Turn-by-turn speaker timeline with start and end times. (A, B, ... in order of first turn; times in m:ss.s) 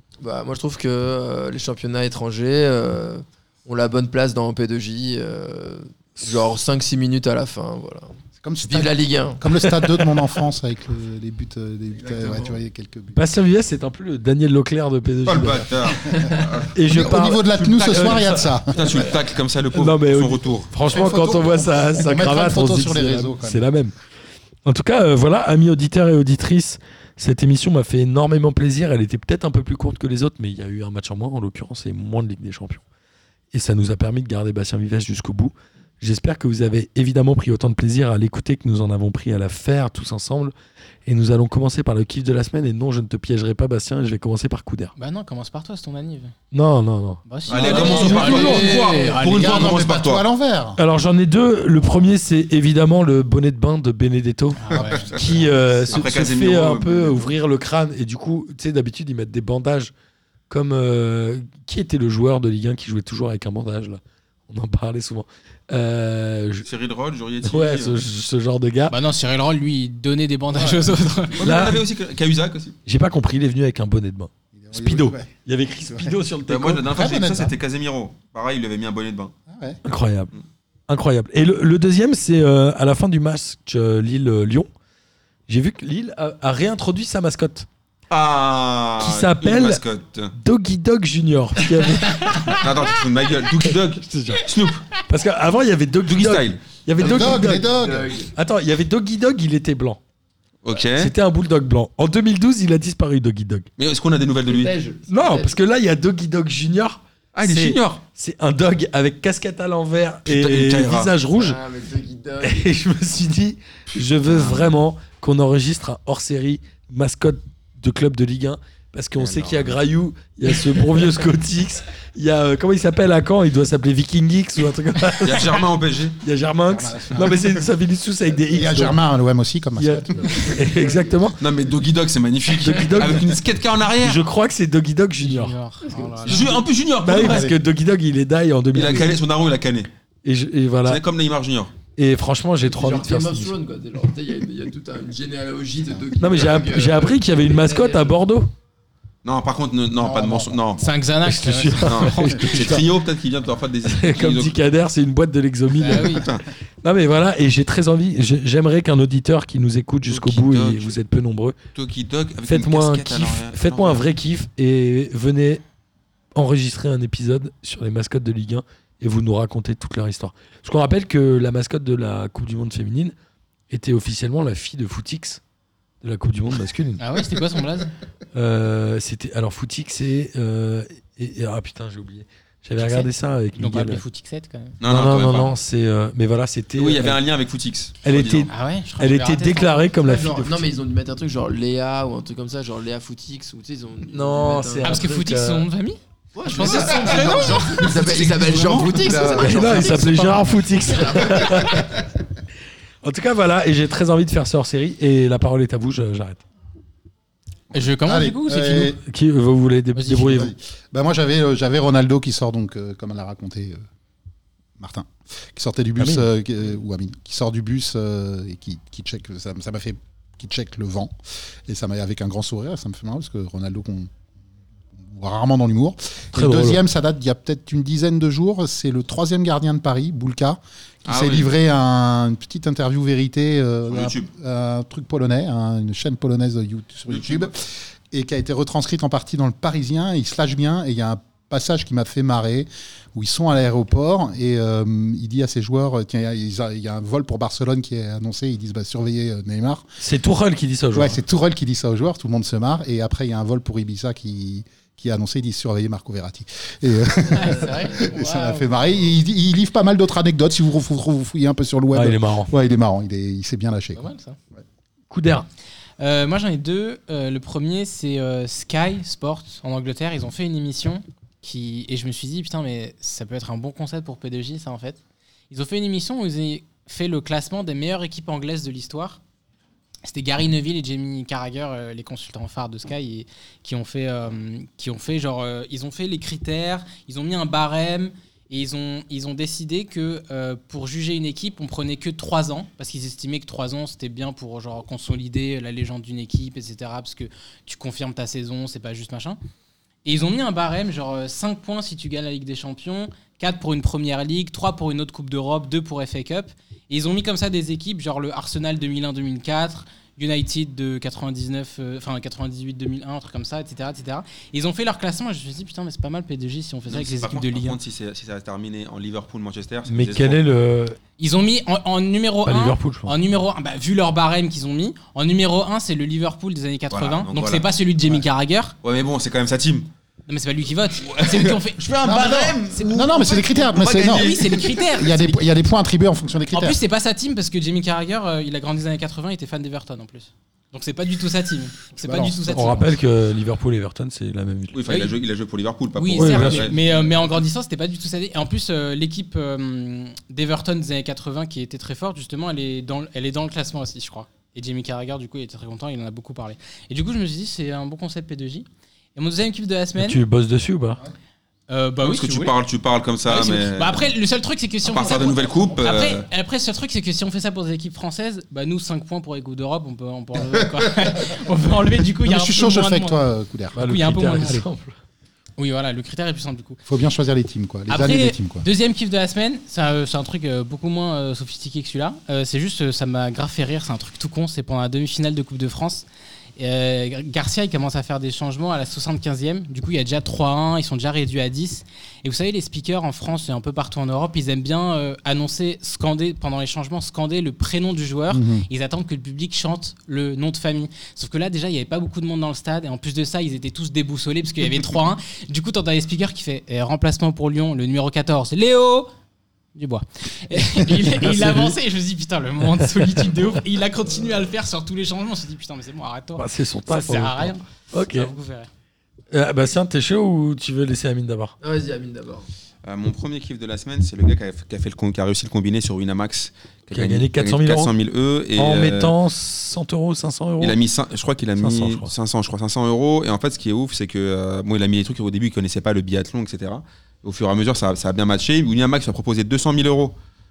0:00.2-0:10.4 A
0:08.4-0:13.2 B
0:12.0-0:12.6 A
0:13.2-0:15.8 C
0:15.2-0:20.7 D
0:15.8-0:19.1 B
0:16.7-0:18.5 C
0:19.7-0:23.9 C
0:20.9-0:23.7 B
0:24.6-0:32.8 C
0:33.5-0:40.5 C
0:41.1-0:44.9 C
0:45.0-0:46.3 E
0:46.5-0:48.8 C
0:47.3-0:49.9 E
0:47.5-0:50.2 D
0:47.7-0:49.2 A
0:49.2-0:50.8 B
0:50.8-0:59.9 C
0:54.6-0:55.5 E
0:54.7-0:55.3 D
0:54.8-0:55.2 B
0:55.9-0:57.3 D
1:00.5-1:06.7 C
1:06.6-1:08.0 D
1:07.4-1:09.0 C
1:08.9-1:11.5 E
1:11.4-1:12.8 D
1:11.4-1:11.8 C
1:12.9-1:16.9 C
1:14.5-1:15.3 B
1:16.5-1:19.3 D
1:16.9-1:17.5 B
1:19.5-1:19.8 B
1:19.8-1:20.3 C
1:20.9-1:24.7 C
1:25.5-1:27.7 C
1:28.1-1:30.3 D
1:29.0-1:29.8 C
1:30.4-1:32.9 C
1:32.5-1:34.9 D
1:34.0-1:37.7 C
1:36.0-1:36.7 D
1:37.0-1:38.1 B
1:37.0-1:38.3 A
1:38.3-1:40.0 C
1:40.6-1:41.1 D
1:40.9-1:43.7 C
1:43.8-1:44.7 D
1:44.4-1:45.6 A
1:45.1-1:51.6 C
1:47.4-1:48.0 D
1:50.3-1:51.1 D
1:51.3-1:52.7 A
1:52.4-2:05.7 C
1:54.3-1:54.7 D
1:59.2-1:59.8 D
2:05.2-2:06.2 D
2:06.2-2:09.0 C
2:06.7-2:07.7 B
2:08.5-2:10.6 B
2:09.8-2:11.4 C
2:11.4-2:14.2 D
2:12.5-2:13.4 C
2:14.0-2:15.6 C
2:15.2-2:16.6 E
2:16.2-2:17.5 D
2:17.0-2:19.2 C
2:17.2-2:17.5 B
2:18.7-2:19.9 D
2:20.2-2:21.0 C
2:20.8-2:21.8 D
2:21.9-2:23.6 C
2:22.6-2:28.2 A
2:26.2-2:28.5 C
2:29.2-2:30.8 D
2:30.0-2:30.9 B
2:30.8-2:32.8 E
2:31.2-2:32.9 C
2:31.9-2:34.6 D
2:33.8-2:36.3 C
2:35.8-2:36.3 E
2:36.1-2:36.5 D
2:36.8-2:41.6 C
2:40.1-2:41.0 D
2:41.7-2:44.0 D
2:42.5-2:45.6 C
2:46.4-2:53.1 C
2:53.7-2:55.4 C
2:56.0-2:57.0 C
2:57.0-2:57.9 E
2:58.3-3:04.0 C
3:02.8-3:04.8 E
3:04.8-3:05.6 D
3:04.8-3:07.2 C
3:06.8-3:08.5 D
3:08.0-3:10.7 C
3:08.5-3:09.9 E
3:10.0-3:15.1 A
3:14.1-3:15.7 C
3:14.8-3:17.9 E
3:16.4-3:21.9 A
3:16.6-3:19.3 D
3:19.0-3:19.9 B
3:19.3-3:22.0 C
3:20.0-3:20.4 E
3:23.0-3:26.4 C
3:27.7-3:29.0 E
3:28.0-3:29.0 B
3:29.0-3:30.5 C
3:30.0-3:30.4 E
3:30.3-3:33.8 B
3:34.8-3:41.1 B
3:36.0-3:36.3 C
3:41.7-3:44.1 B
3:45.0-4:09.9 B
3:46.3-3:46.8 C
3:51.1-3:51.5 D
3:53.9-3:54.3 D
3:57.1-3:57.5 D
4:10.0-4:11.2 C
4:10.9-4:24.0 B
4:17.3-4:18.7 E
4:21.9-4:22.5 C
4:24.0-4:24.4 E
4:25.1-4:25.5 C
4:26.0-4:39.2 E
4:40.0-4:59.4 E
5:00.0-5:17.8 E
5:16.9-5:20.4 D
5:19.9-5:21.0 C
5:21.2-5:28.8 E
5:22.5-5:23.1 C
5:26.9-5:27.7 D
5:28.8-5:29.9 D
5:30.3-5:32.0 E
5:31.0-5:34.9 D
5:32.0-5:36.8 B
5:32.7-5:33.3 E
5:34.0-5:35.4 E
5:36.5-5:42.9 E
5:42.0-5:42.6 B
5:42.5-5:45.0 C
5:44.7-5:46.8 D
5:46.0-6:00.2 E
5:46.1-5:46.7 C
6:00.0-6:01.0 C
6:01.7-6:02.6 E
6:02.0-6:04.1 D
6:03.3-6:13.2 E
6:04.8-6:06.2 D
6:12.2-6:13.8 B
6:13.8-6:15.0 C
6:13.8-6:14.6 E
6:15.6-6:16.8 E
6:16.9-6:18.6 B
6:17.9-6:26.1 E
6:26.6-6:49.1 E
6:38.3-6:38.7 B
6:49.8-6:58.7 E
6:50.8-6:51.8 C
6:52.8-6:53.2 C
6:56.4-6:58.3 C
6:59.3-7:01.6 C
7:01.6-7:02.5 A
7:02.8-7:09.1 D
7:06.9-7:07.9 C
7:08.6-7:10.8 C
7:10.6-7:20.2 D
7:11.6-7:12.1 C